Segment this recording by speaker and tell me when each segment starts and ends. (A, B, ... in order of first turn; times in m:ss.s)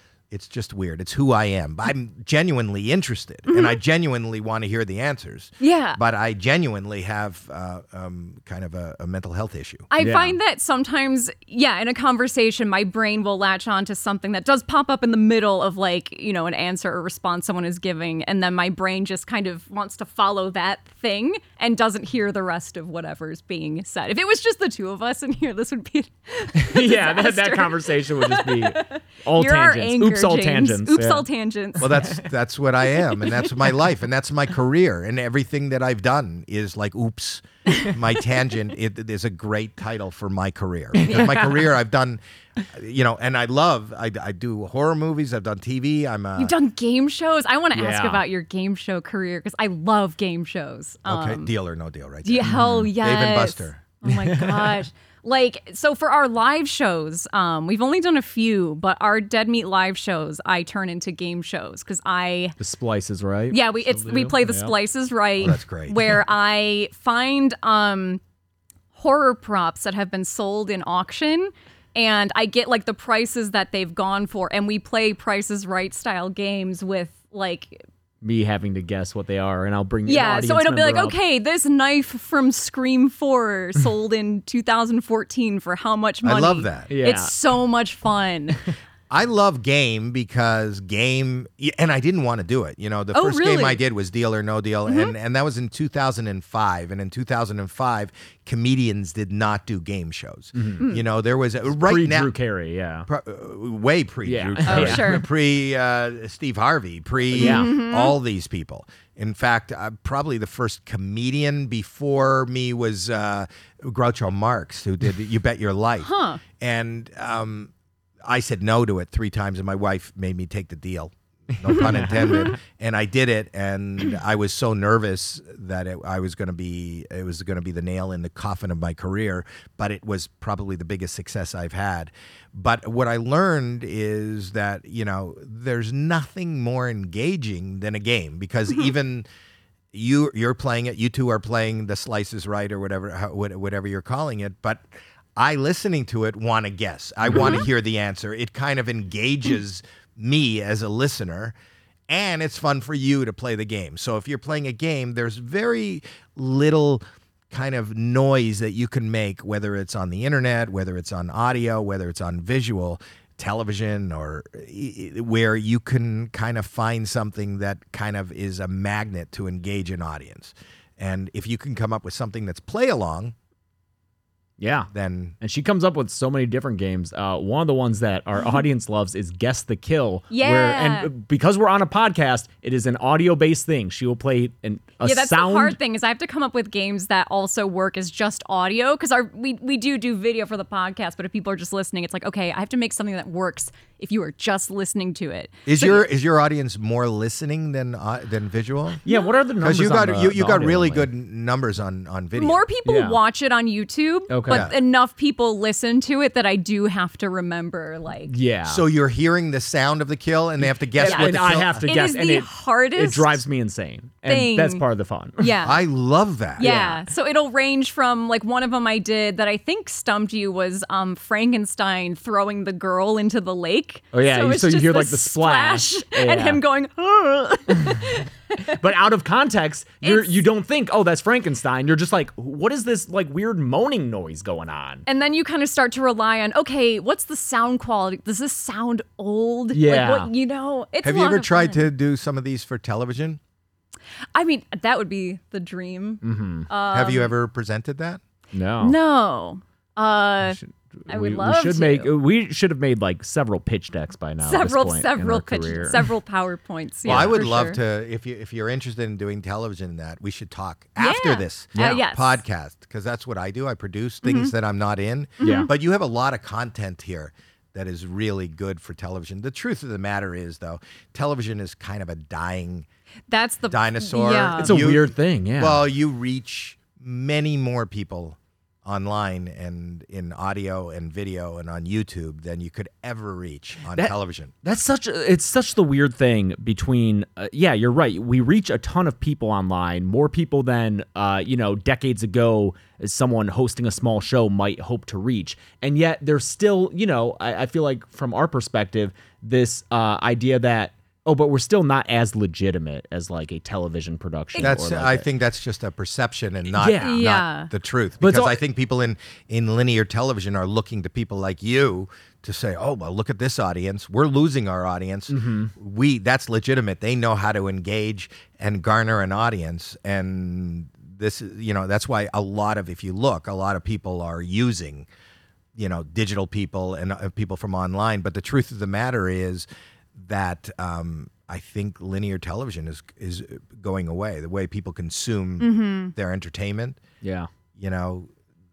0:00.3-0:09.9 A
0:03.5-0:03.8 B
0:05.6-0:06.0 B
0:09.9-0:32.2 B
0:10.0-0:10.4 C
0:26.6-0:31.2 C
0:31.8-0:46.5 A
0:33.1-0:33.4 B
0:46.4-0:51.5 B
0:47.7-0:48.2 C
0:51.0-0:53.8 A
0:52.2-1:02.6 B
0:52.4-0:52.9 C
0:54.1-0:54.8 C
1:02.6-1:04.7 C
1:03.5-1:08.2 B
1:05.4-1:06.0 A
1:08.9-1:17.8 B
1:18.2-1:21.2 C
1:20.0-1:28.6 B
1:26.2-1:26.9 A
1:26.9-1:27.3 C
1:29.1-1:42.3 A
1:33.1-1:33.8 B
1:34.9-1:35.1 B
1:40.6-1:40.8 C
1:41.7-1:43.1 C
1:43.0-1:57.7 A
1:44.2-1:45.2 C
1:44.6-1:45.2 B
1:47.3-1:47.7 C
1:47.3-1:48.2 B
1:56.0-1:56.4 B
1:58.2-2:19.2 A
2:01.6-2:02.5 C
2:19.9-2:24.8 A
2:25.4-2:31.5 A
2:32.1-2:53.3 A
2:54.6-2:54.9 C
2:54.9-2:55.4 A
2:55.4-3:05.8 C
3:00.3-3:01.1 B
3:05.0-3:16.1 B
3:15.6-3:19.0 A
3:19.0-3:21.0 C
3:19.6-3:22.6 A
3:22.4-3:28.3 B
3:22.8-3:23.2 C
3:24.3-3:24.7 C
3:24.5-3:24.8 A
3:28.3-3:28.8 C
3:28.6-3:31.9 A
3:30.6-3:35.5 C
3:31.0-3:33.4 B
3:34.2-3:34.8 B
3:35.4-3:35.8 B
3:35.6-3:36.7 A
3:36.6-3:48.8 B
3:36.6-3:37.0 C
3:44.1-3:46.6 C
3:47.8-3:48.0 C
3:48.7-3:55.0 C
3:50.0-3:50.4 B
3:55.0-4:01.9 B
3:59.7-4:00.3 C
4:01.0-4:03.4 A
4:04.3-4:07.3 B
4:06.2-4:06.7 C
4:06.9-4:08.2 A
4:08.5-4:09.0 C
4:08.8-4:12.1 B
4:10.4-4:16.1 C
4:14.4-4:17.8 B
4:17.0-4:17.5 C
4:17.0-4:32.8 A
4:21.0-4:22.4 B
4:21.7-4:22.0 C
4:24.2-4:24.5 B
4:25.4-4:25.7 B
4:25.4-4:25.7 C
4:33.3-4:34.7 B
4:33.7-4:44.5 A
4:34.6-4:35.8 C
4:43.9-5:05.3 C
5:04.6-5:25.1 A
5:06.8-5:07.2 C
5:07.0-5:07.7 B
5:08.2-5:08.6 C
5:15.3-5:15.7 C
5:25.8-5:37.0 A
5:35.6-5:36.1 B
5:37.2-5:37.5 C
5:37.8-5:38.3 A